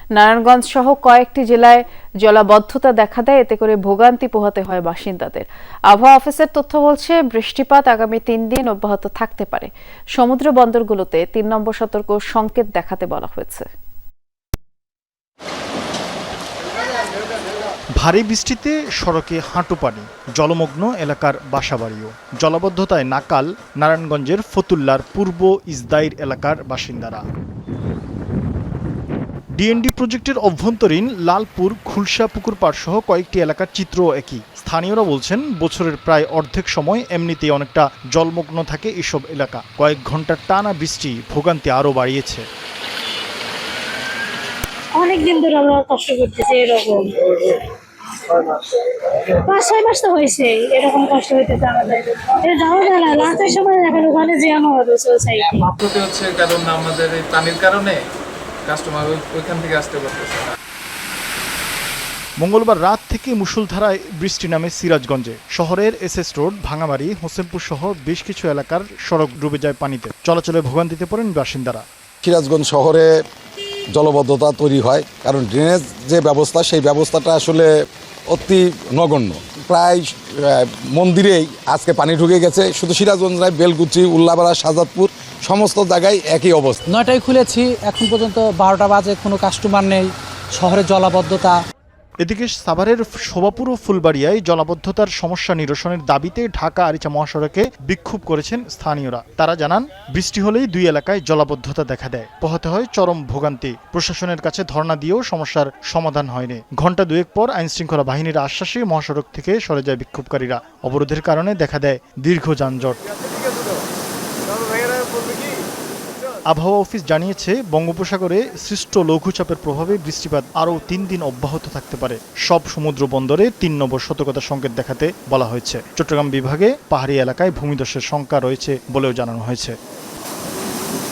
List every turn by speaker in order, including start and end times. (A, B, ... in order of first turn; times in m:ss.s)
0:00.2-0:13.7 A
0:18.0-0:27.2 B
0:29.6-0:42.4 B
0:45.0-0:47.7 C
0:48.3-0:55.6 C
0:55.6-0:58.0 D
0:58.7-1:00.5 D
1:02.4-1:11.8 B
1:12.2-1:13.1 E
1:14.0-1:17.7 E
1:18.3-1:26.8 E
1:26.9-1:31.6 F
1:32.2-1:53.0 B
1:56.5-2:09.8 B